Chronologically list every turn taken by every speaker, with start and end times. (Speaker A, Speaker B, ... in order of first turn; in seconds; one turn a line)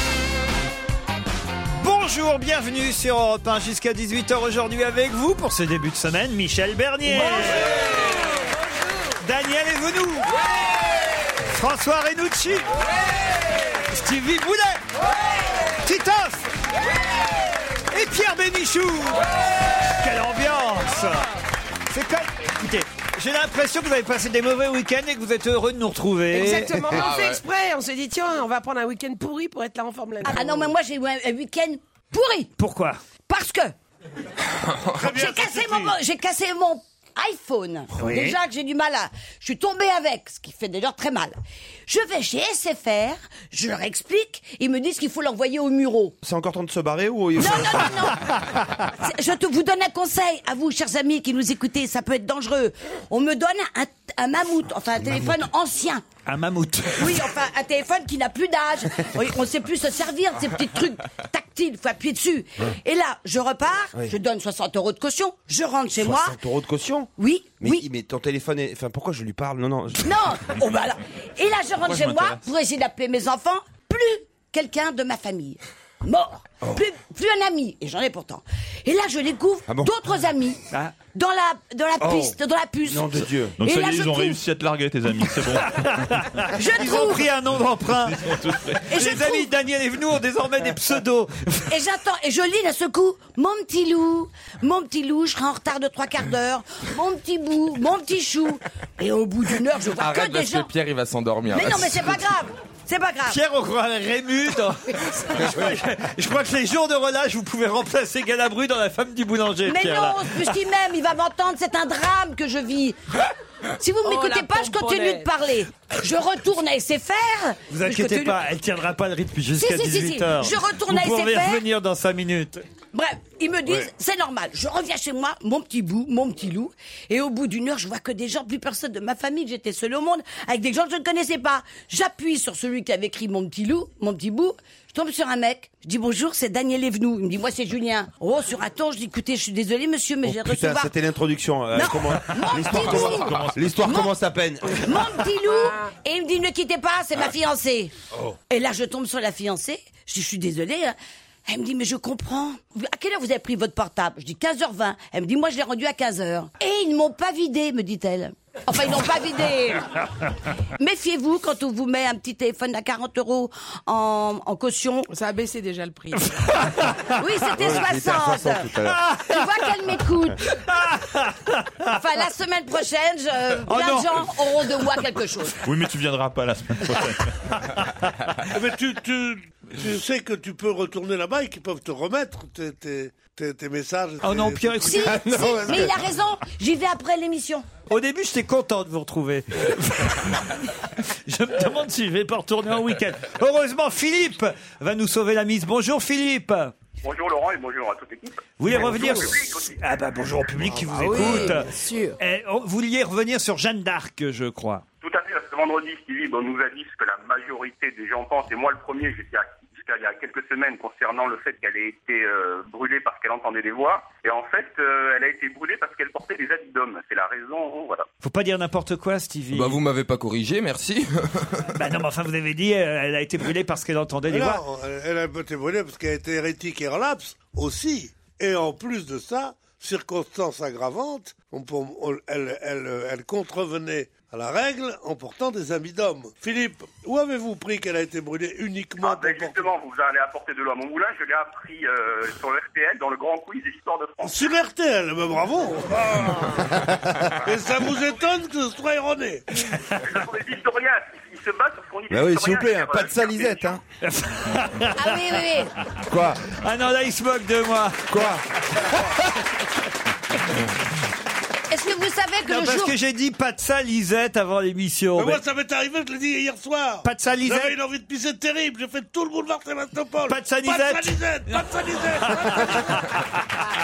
Speaker A: 1.8-8.0
Speaker A: 9.2-10.4
Speaker A: 11.4-12.7
Speaker A: 13.8-14.8
Speaker A: 15.8-16.5
Speaker A: 17.9-21.3
Speaker A: 21.9-26.8
Speaker B: 26.3-30.7
Speaker C: 26.9-27.4
Speaker D: 30.2-32.5
Speaker A: 32.6-33.0
Speaker D: 33.3-33.7
Speaker C: 34.5-35.1
Speaker E: 34.9-36.0
Speaker D: 35.0-41.4
Speaker A: 38.0-38.4
Speaker D: 41.9-46.1
Speaker F: 46.2-48.1
Speaker D: 47.4-56.0
Speaker A: 56.2-57.3
Speaker D: 57.0-66.4
Speaker F: 66.0-67.1
Speaker D: 67.2-67.8
Speaker F: 67.6-70.1
Speaker D: 70.0-84.4
Speaker G: 71.8-72.4
Speaker F: 82.8-83.5
Speaker G: 83.6-86.2
Speaker A: 85.7-91.7
Speaker D: 86.5-87.3
Speaker G: 88.1-88.8
Speaker D: 88.9-89.5
Speaker D: 91.7-100.7
Speaker C: 99.9-102.2
Speaker D: 101.5-103.4
Speaker A: 103.3-110.6
Speaker D: 109.6-113.0
Speaker D: 113.8-118.4
Speaker B: 114.0-115.3
Speaker A: 117.7-122.6
Speaker D: 119.6-121.6
Speaker D: 122.9-140.9
Speaker F: 140.2-144.9
Speaker D: 141.7-144.1
Speaker G: 142.6-143.9
Speaker D: 144.7-147.9
Speaker B: 145.5-145.9
Speaker D: 148.5-150.9
Speaker D: 151.5-159.9
Speaker D: 160.8-165.1
Speaker B: 165.1-166.5
Speaker A: 166.2-167.2
Speaker D: 167.2-168.7
Speaker F: 167.6-169.0
Speaker A: 168.8-169.5
Speaker D: 169.3-170.4
Speaker A: 170.5-172.0
Speaker D: 171.8-175.6
Speaker A: 173.7-174.4
Speaker G: 175.6-177.5
Speaker A: 177.7-178.4
Speaker E: 178.5-185.1
Speaker A: 184.2-185.5
Speaker D: 184.8-187.7
Speaker F: 185.2-185.9
Speaker A: 187.9-196.7
Speaker H: 197.0-199.8
Speaker A: 198.6-204.8
Speaker B: 200.9-202.2
Speaker F: 201.2-201.4
Speaker H: 205.0-218.1
Speaker A: 218.2-219.8
Speaker C: 219.5-221.7
Speaker A: 221.7-224.6
Speaker E: 224.3-239.7
Speaker H: 239.0-244.5
Speaker E: 244.2-246.7
Speaker F: 246.4-247.2
Speaker E: 247.3-249.6
Speaker H: 249.9-253.8
Speaker F: 252.1-253.8
Speaker A: 254.0-255.2
Speaker D: 255.0-255.7
Speaker F: 256.1-256.5
Speaker A: 256.5-258.1
Speaker F: 258.1-258.4
Speaker A: 258.8-259.3
Speaker D: 261.7-262.9
Speaker A: 262.4-265.4
Speaker E: 265.1-273.1
Speaker A: 267.0-267.7
Speaker A: 270.3-271.6
Speaker A: 272.1-273.3